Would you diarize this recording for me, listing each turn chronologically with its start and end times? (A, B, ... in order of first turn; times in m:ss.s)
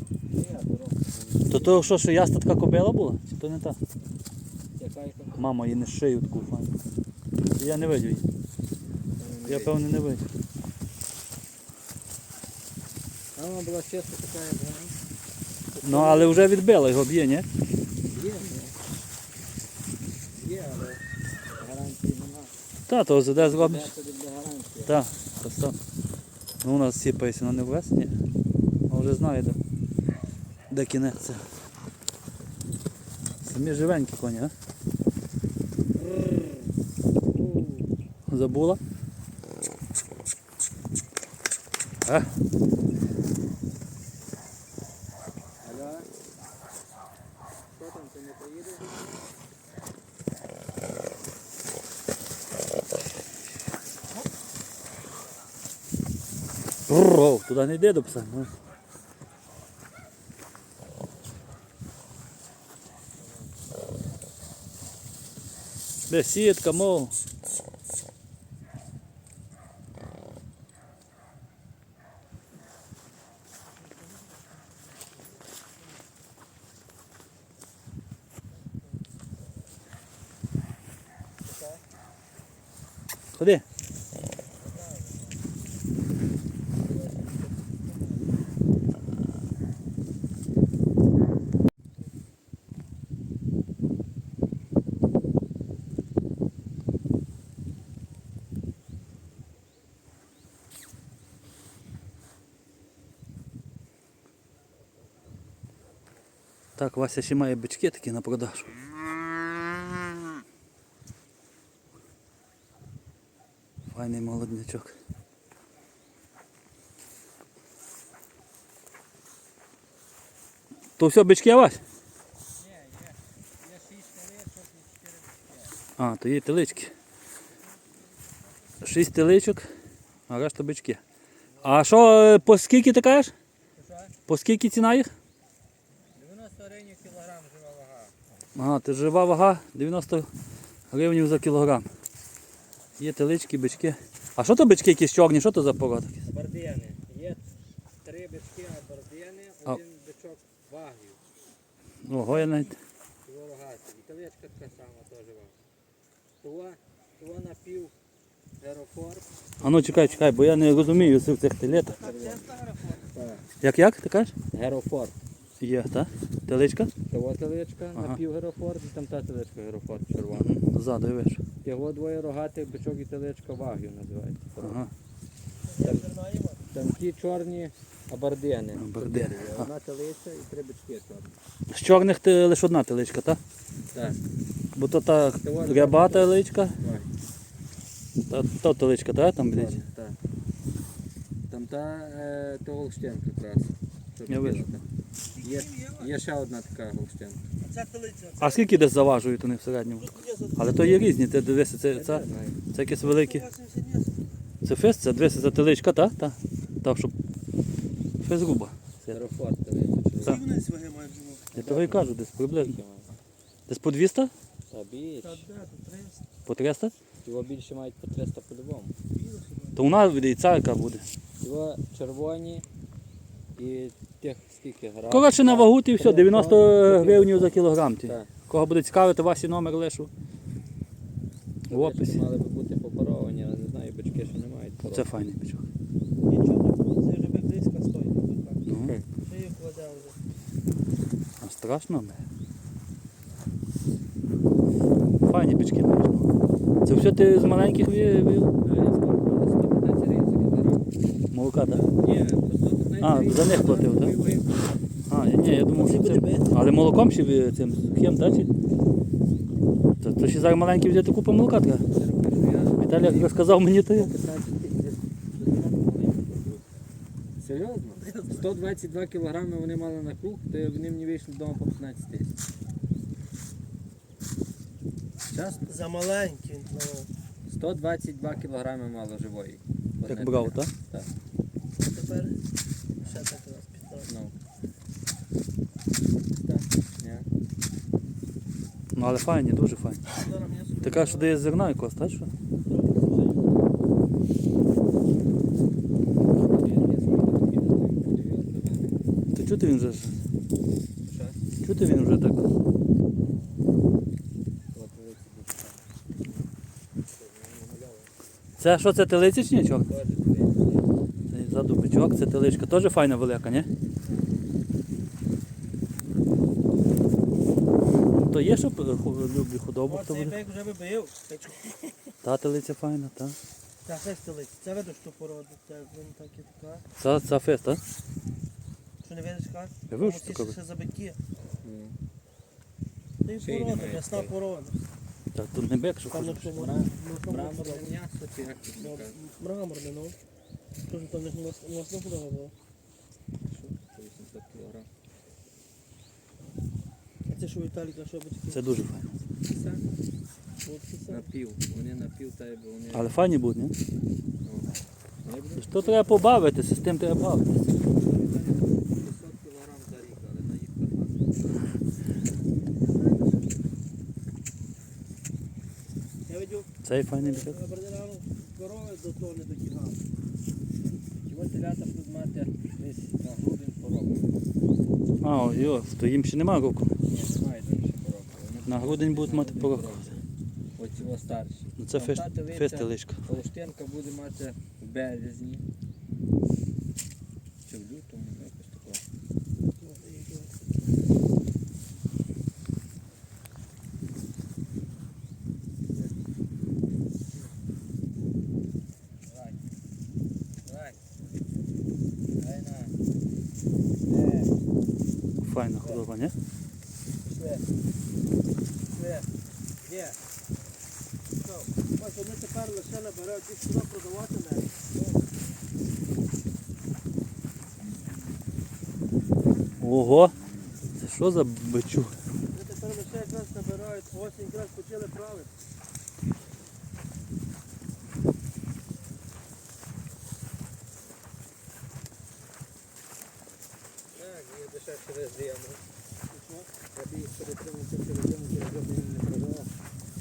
0:00.3-0:01.9 A
0:01.5-0:03.8 B
0:04.8-0:05.4 A
0:05.4-0:06.8 B
0:07.6-0:08.3 B
0:09.2-0:09.8 A
0:09.5-0:10.3 B
0:13.4-0:15.0 A
0:15.8-0:16.4 A
0:15.8-0:17.5 B
0:18.1-0:18.7 A
0:20.3-0:21.0 A
0:21.6-0:22.5 A
0:22.9-0:23.9 B
0:23.4-0:25.0 A
0:24.9-0:25.8 B
0:26.6-0:28.2 B
0:28.9-0:29.6 B
0:30.7-0:31.4 B
0:33.4-0:34.5 B
0:36.0-0:36.7 A
0:37.3-0:37.9 A
0:38.3-0:38.8 B
0:42.0-0:42.3 B
0:45.6-0:46.1 A
0:47.8-0:49.2 A
0:56.9-0:58.5 B
1:06.1-1:07.2 B
1:21.4-1:21.8 A
1:23.3-1:23.6 B
1:24.8-1:25.2 A
1:26.8-1:28.3 A
1:46.8-1:48.7 B
1:53.9-1:54.9 B
2:01.0-2:01.8 B
2:02.6-2:05.8 A
2:06.0-2:06.9 B
2:08.8-2:09.7 B
2:10.3-2:11.0 B
2:11.5-2:11.8 A
2:11.6-2:13.3 B
2:13.8-2:14.1 A
2:14.3-2:15.1 B
2:16.2-2:18.1 A
2:18.6-2:20.3 B
2:20.9-2:21.9 B
2:23.0-2:26.2 B
2:26.3-2:27.4 A
2:28.0-2:31.2 A
2:32.0-2:32.8 B
2:33.2-2:35.6 A
2:36.4-2:37.9 A
2:38.6-2:39.3 A
2:39.6-2:42.0 B
2:39.9-2:40.9 A
2:41.8-2:43.1 C
2:41.9-2:42.5 A
2:43.1-2:43.5 A
2:43.6-2:44.3 B
2:44.5-2:45.2 A
2:45.6-2:46.9 B
2:47.1-2:50.6 A
2:50.3-2:51.4 B
2:51.6-2:54.8 A
2:54.6-2:54.9 B
2:55.7-2:56.6 C
2:55.8-2:56.1 A
2:56.7-3:01.4 A
2:58.8-2:59.7 B
3:01.7-3:03.4 B
3:03.9-3:04.2 A
3:04.8-3:06.8 B
3:05.4-3:07.1 A
3:08.3-3:09.8 B
3:09.4-3:10.2 A
3:11.5-3:14.8 A
3:14.3-3:14.6 B
3:15.4-3:16.1 C
3:15.4-3:17.4 A
3:17.6-3:18.9 C
3:18.4-3:23.5 B
3:20.0-3:21.2 C
3:21.9-3:22.6 A
3:23.0-3:24.2 C
3:24.6-3:27.1 B
3:28.2-3:29.2 B
3:29.1-3:30.4 A
3:30.2-3:31.6 C
3:31.6-3:32.8 B
3:31.6-3:33.1 A
3:33.7-3:34.3 B
3:34.7-3:35.5 A
3:35.2-3:36.2 C
3:36.5-3:36.9 B
3:37.2-3:38.9 A
3:39.2-3:39.9 C
3:39.8-3:41.0 B
3:41.4-3:42.6 A
3:43.6-3:48.3 A
3:45.1-3:50.1 B
3:51.7-3:52.2 B
3:51.7-3:55.1 A
3:54.9-3:55.6 B
3:56.2-4:00.2 C
3:58.7-3:59.0 B
3:58.8-3:59.1 A
4:01.4-4:02.2 B
4:05.2-4:06.3 B
4:06.8-4:08.6 B
4:08.6-4:10.9 A
4:11.3-4:11.9 B
4:11.9-4:14.6 A
4:13.0-4:14.1 B
4:15.1-4:18.5 B
4:15.8-4:16.5 C
4:20.0-4:21.8 B
4:21.9-4:26.6 A
4:22.8-4:24.1 B
4:27.4-4:32.3 A
4:28.0-4:28.4 C
4:35.3-4:35.6 A
4:35.6-4:37.1 C
4:37.5-4:41.1 A
4:40.1-4:40.7 B
4:41.8-4:42.4 C
4:43.0-4:44.1 C
4:44.1-4:44.3 A
4:46.4-4:47.3 A
4:49.0-4:50.0 B
4:50.2-4:51.4 C
4:50.8-4:52.3 B
4:52.7-4:53.1 C
4:53.1-4:53.4 A
4:56.5-4:59.0 A
4:59.3-5:00.2 B
5:01.0-5:01.4 A
5:01.6-5:02.5 B
5:04.7-5:06.4 A
5:07.1-5:08.1 A
5:08.6-5:09.9 B
5:09.9-5:10.9 A
5:11.3-5:13.7 B
5:18.1-5:20.4 B
5:19.9-5:22.1 C
5:22.2-5:23.4 B
5:23.8-5:26.8 C
5:27.0-5:27.8 B
5:29.0-5:31.2 C
5:29.9-5:30.6 B
5:31.6-5:32.0 A
5:33.2-5:34.8 C
5:33.4-5:34.3 A
5:35.4-5:36.5 B
5:36.1-5:37.9 C
5:36.6-5:39.2 A
5:38.8-5:40.2 C
5:40.9-5:42.5 C
5:43.5-5:44.9 A
5:47.3-5:48.6 C
5:48.5-5:49.2 B
5:49.5-5:49.9 A
5:50.6-5:51.3 C
5:51.1-5:53.2 A
5:52.9-5:53.8 B
5:54.4-5:54.7 A
5:55.2-5:56.2 A
5:55.6-5:57.6 B
5:58.0-6:01.6 A
6:03.0-6:03.4 C
6:06.3-6:10.0 C
6:06.8-6:07.6 B
6:11.2-6:14.3 A
6:15.2-6:16.9 B
6:17.1-6:20.2 A
6:18.7-6:20.0 B
6:20.8-6:25.6 A
6:21.8-6:23.2 B
6:27.6-6:29.0 A
6:29.6-6:30.6 C
6:39.3-6:39.6 A
6:40.7-6:41.0 A
6:42.4-6:42.9 A
6:44.1-6:44.5 A
6:45.4-6:46.3 B
6:47.2-6:47.6 A
6:48.9-6:49.3 A
6:49.8-6:50.2 A
6:51.8-6:54.7 C
6:55.0-6:55.2 A
6:59.8-7:00.3 B
7:01.0-7:02.1 B
7:02.5-7:05.5 C
7:14.1-7:15.8 A
7:16.3-7:16.7 C
7:16.9-7:19.7 A